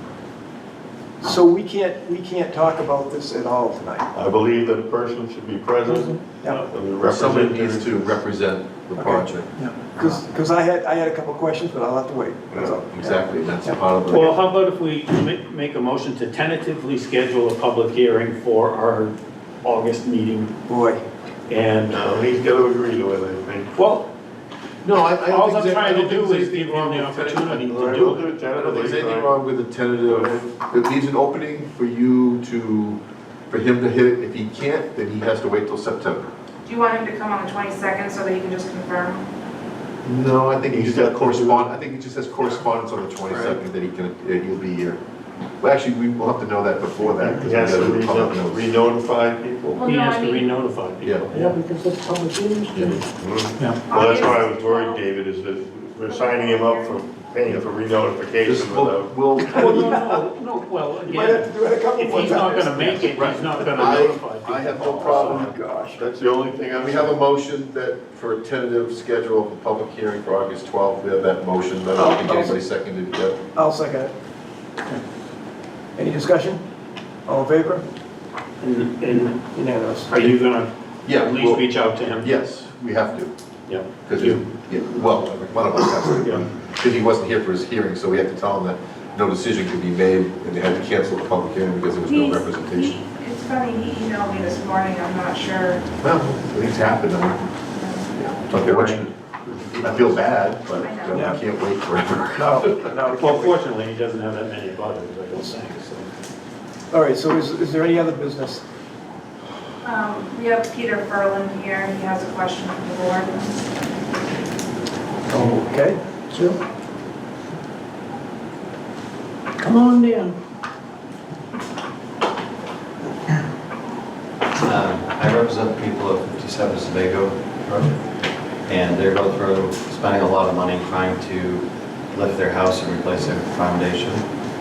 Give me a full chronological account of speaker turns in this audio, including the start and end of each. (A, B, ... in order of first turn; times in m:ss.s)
0:01.2-0:04.1 A
0:04.1-0:08.2 B
0:05.9-0:06.7 A
0:07.0-0:10.2 C
0:09.0-0:13.8 A
0:12.9-0:14.4 C
0:14.1-0:20.5 D
0:20.7-0:21.0 A
0:21.5-0:22.0 D
0:21.9-0:23.7 B
0:23.8-0:24.1 D
0:24.8-0:33.0 C
0:25.2-0:28.6 D
0:27.7-0:29.4 B
0:30.0-0:30.5 B
0:33.5-0:36.3 C
0:36.6-0:39.2 E
0:40.0-0:45.0 C
0:40.6-0:41.7 B
0:43.3-0:43.6 B
0:45.6-0:48.6 C
0:47.3-0:49.8 B
0:49.7-0:50.5 E
0:49.8-0:51.6 D
0:51.3-0:53.0 F
0:53.2-0:59.1 B
0:53.9-0:55.0 E
0:56.1-0:57.1 E
0:58.4-1:00.1 C
0:59.4-1:05.5 D
0:59.6-1:00.2 A
1:01.1-1:03.0 A
1:02.9-1:05.6 C
1:05.0-1:06.0 A
1:06.0-1:07.2 B
1:06.7-1:13.4 C
1:11.9-1:12.6 A
1:13.6-1:14.1 A
1:16.0-1:16.6 A
1:17.3-1:17.8 A
1:18.6-1:19.4 D
1:19.5-1:20.1 A
1:20.1-1:22.3 D
1:21.0-1:23.3 C
1:23.7-1:24.4 D
1:24.0-1:33.0 C
1:26.2-1:26.4 D
1:32.0-1:35.8 E
1:36.0-1:37.4 C
1:37.7-1:38.1 E
1:38.1-1:39.1 C
1:38.5-1:40.0 D
1:39.7-1:42.7 C
1:40.8-1:41.3 E
1:41.2-1:41.4 A
1:42.4-1:43.6 A
1:43.2-1:46.1 D
1:46.9-1:48.6 A
1:49.8-1:53.6 E
1:55.3-1:56.0 A
1:56.3-1:56.6 F
1:59.6-2:00.3 F
2:04.6-2:08.0 G
2:08.7-2:14.3 G